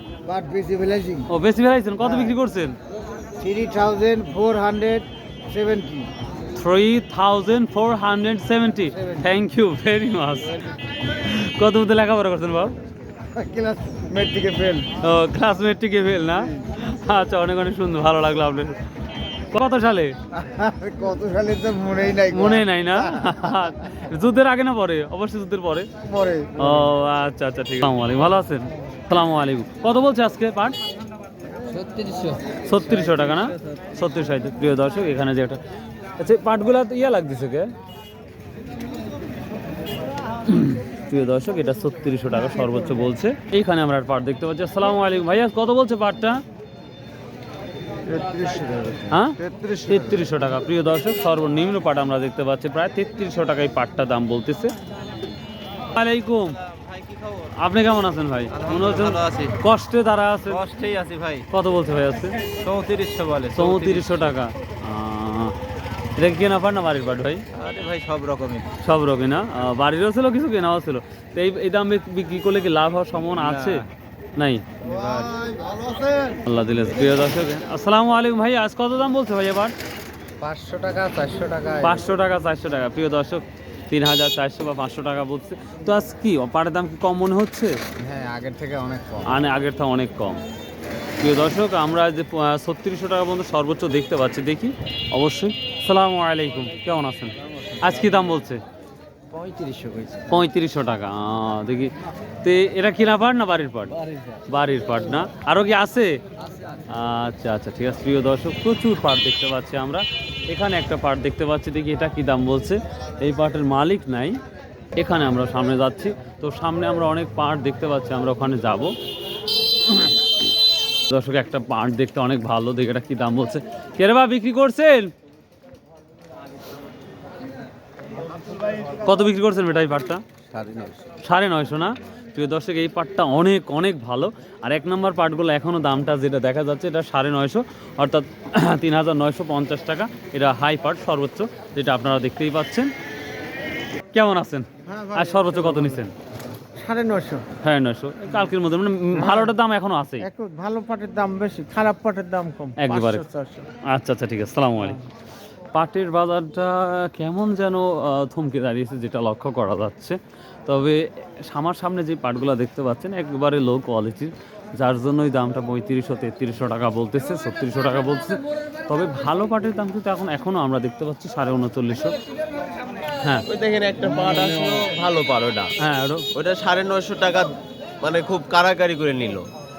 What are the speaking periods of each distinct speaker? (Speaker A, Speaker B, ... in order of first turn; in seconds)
Speaker A: 0.2-1.3, 2.0-2.3, 3.4-6.1, 8.9-9.3, 13.3-14.9, 20.3-23.3, 26.0-26.9, 31.6-32.6, 48.0-50.3, 75.5-76.3, 80.4-82.0, 88.0-89.4, 99.3-100.3, 130.5-131.0, 144.8-146.0, 146.8-147.4, 149.1-149.5, 150.2-153.7
Speaker B: 1.3-2.8, 6.5-12.8, 15.0-18.8, 19.5-20.1, 22.3-25.9, 26.6-30.8, 32.6-35.6, 36.2-37.7, 40.5-46.4, 49.1-54.7, 55.8-56.6, 57.5-60.6, 61.5-62.4, 63.5-65.5, 66.2-67.4, 68.8-73.8, 74.4-74.7, 76.5-79.7, 81.8-87.8, 89.2-90.4, 91.2-98.6, 100.3-106.2, 106.9-114.4, 115.0-118.9, 119.9-120.2, 121.1-125.1, 129.0-130.2, 131.2-142.9, 144.1-146.1, 147.6-150.3, 152.8-153.2, 153.8-155.0, 155.7-172.1, 173.2-173.4, 175.8-176.2
Speaker C: 56.8-57.4, 58.5-59.6, 60.5-61.5, 62.6-64.3, 67.5-68.7, 73.4-73.8, 74.8-75.4, 173.5-175.7, 176.3-179.4